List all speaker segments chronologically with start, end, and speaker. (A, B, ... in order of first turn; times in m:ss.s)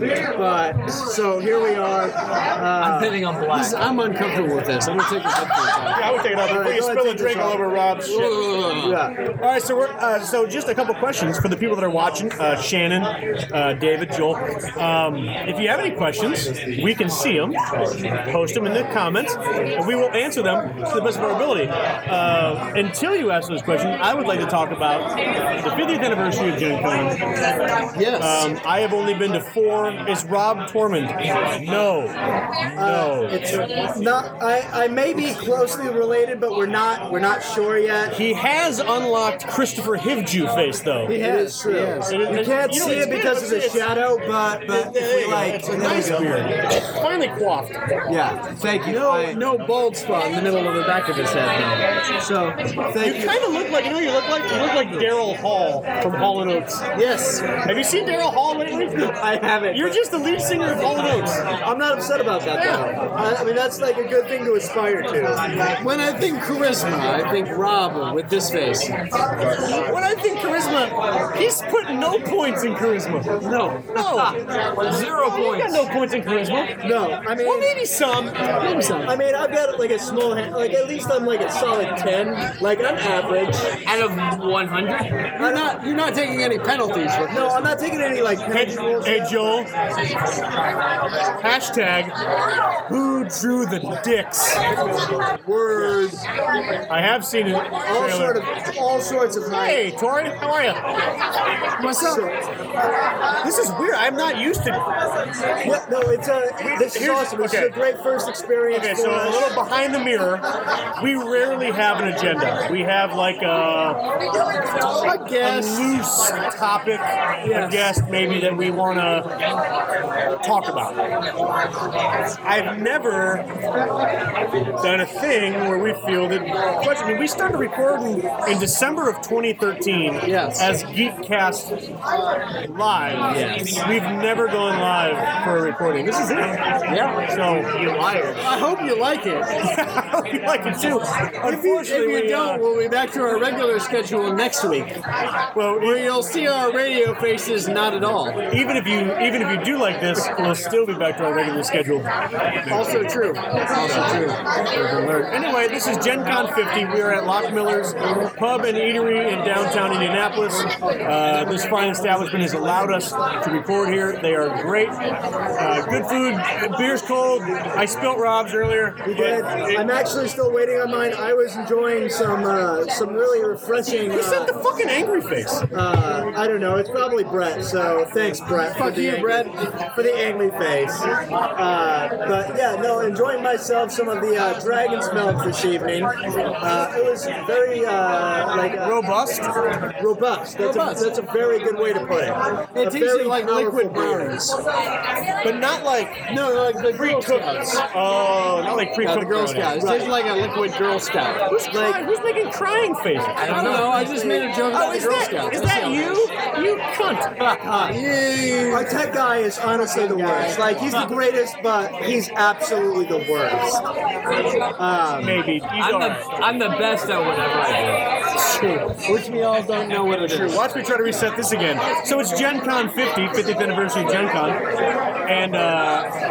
0:00.3-0:03.2 A
0:02.8-0:03.8 B
0:03.5-0:06.0 C
0:05.9-0:08.5 D
0:06.5-0:07.6 A
0:08.1-0:09.0 C
0:08.8-0:09.1 A
0:09.4-0:17.6 D
0:18.2-0:25.1 D
0:25.6-0:27.2 D
0:27.9-0:28.5 C
0:28.2-0:32.1 D
0:32.7-0:33.4 D
0:32.8-0:38.1 A
0:38.1-0:41.1 D
0:41.1-0:42.2 C
0:41.1-0:46.5 A
0:42.1-0:43.8 D
0:44.7-0:47.8 D
0:48.1-0:49.4 A
0:48.8-0:51.8 C
0:52.2-0:53.4 A
0:53.0-0:56.8 D
0:57.0-0:57.4 C
0:57.6-0:59.2 D
0:59.2-1:00.0 A
0:59.7-1:01.4 D
1:01.6-1:05.4 A
1:02.6-1:02.9 D
1:05.8-1:08.9 C
1:09.6-1:13.3 D
1:13.4-1:15.9 B
1:13.4-1:13.7 C
1:13.9-1:14.4 D
1:14.9-1:16.7 D
1:16.8-1:17.7 A
1:17.4-1:18.6 D
1:18.6-1:19.1 C
1:19.0-1:23.7 A
1:23.8-1:25.2 B
1:25.4-1:27.7 C
1:25.4-1:25.7 A
1:27.3-1:29.5 A
1:28.5-1:29.7 D
1:31.4-1:32.1 D
1:32.9-1:34.6 D
1:35.4-1:36.2 A
1:36.9-1:38.4 D
1:37.9-1:39.8 A
1:39.5-1:40.8 D
1:41.8-1:42.2 C
1:41.9-1:42.4 A
1:43.4-1:44.8 D
1:45.6-1:49.5 A
1:46.6-1:47.7 D
1:48.7-1:50.4 D
1:51.0-1:54.0 D
1:55.0-1:55.9 C
1:55.4-1:59.3 D
1:57.4-1:57.9 C
2:00.4-2:01.0 D
2:02.4-2:03.4 D
2:04.8-2:11.7 D
2:10.2-2:10.7 C
2:12.6-2:16.6 D
2:13.2-2:13.8 C
2:16.9-2:17.2 C
2:17.3-2:18.4 D
2:18.4-2:19.5 C
2:19.6-2:22.6 D
2:21.4-2:24.9 C
2:25.5-2:26.0 D
2:25.8-2:28.4 C
2:28.5-2:32.1 D
2:32.6-2:33.2 D
2:32.7-2:34.4 C
2:33.7-2:45.0 D
2:45.6-2:49.8 D
2:49.0-2:54.5 A
2:54.1-2:55.6 D
2:55.7-3:09.0 A
2:58.8-2:59.5 C
3:08.8-3:09.5 D
3:10.0-3:13.9 A
3:10.6-3:11.1 C
3:12.7-3:14.6 C
3:13.6-3:14.4 D
3:15.4-3:16.2 D
3:16.3-3:17.8 C
3:16.9-3:19.8 D
3:19.0-3:21.4 C
3:19.8-3:20.1 A
3:21.5-3:23.9 D
3:21.7-3:22.0 A
3:23.4-3:26.3 C
3:23.5-3:23.9 B
3:24.2-3:24.4 A
3:24.7-3:27.3 D
3:27.6-3:28.0 A
3:27.9-3:28.9 C
3:28.7-3:33.8 A
3:29.8-3:30.6 C
3:34.8-3:35.4 A
3:35.2-3:36.3 D
3:35.8-3:38.0 B
3:38.4-3:40.6 C
3:40.2-3:44.6 D
3:45.3-3:46.1 D